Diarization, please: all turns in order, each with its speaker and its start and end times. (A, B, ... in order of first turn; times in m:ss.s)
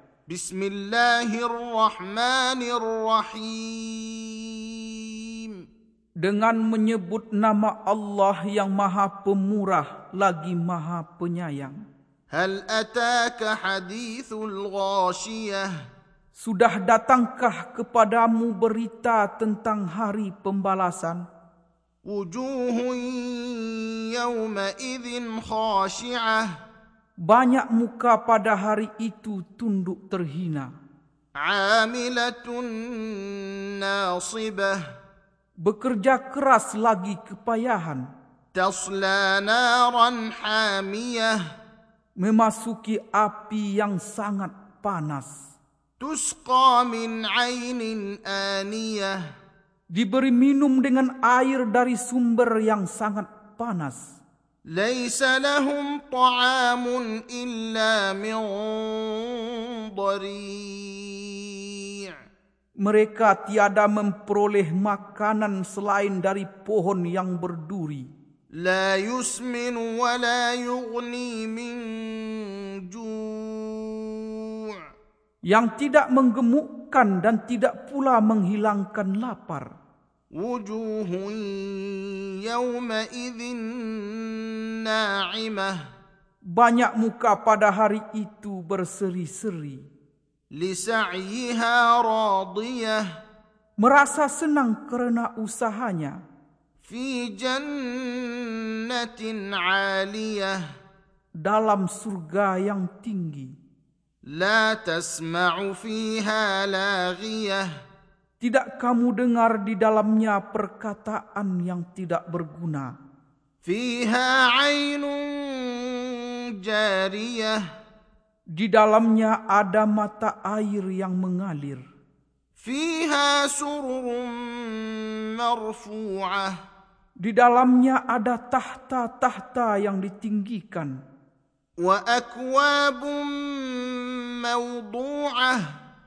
0:00.3-0:05.6 A
0:06.2-0:11.8 B
0:12.3-0:15.7 A
0:16.3-0:21.2 B
0:22.0-0:26.5 A
0:27.3-0:30.7 B
0:31.4-0:34.8 A
0:35.6-0:38.0 B
0:38.5-0:41.4 A
0:42.2-0:45.3 B
0:46.0-0:49.2 A
0:49.9-0:54.1 B
0:54.7-1:02.1 A
1:02.8-1:08.1 B
1:08.6-1:14.8 A
1:15.5-1:19.7 B
1:20.3-1:25.8 A
1:26.5-1:29.8 B
1:30.5-1:33.0 A
1:33.8-1:36.2 B
1:36.8-1:40.6 A
1:41.4-1:43.5 B
1:44.2-1:47.7 A
1:48.4-1:52.9 B
1:53.6-1:57.6 A
1:58.6-2:01.8 B
2:02.6-2:06.5 A
2:07.2-2:10.9 B
2:11.8-2:15.6 A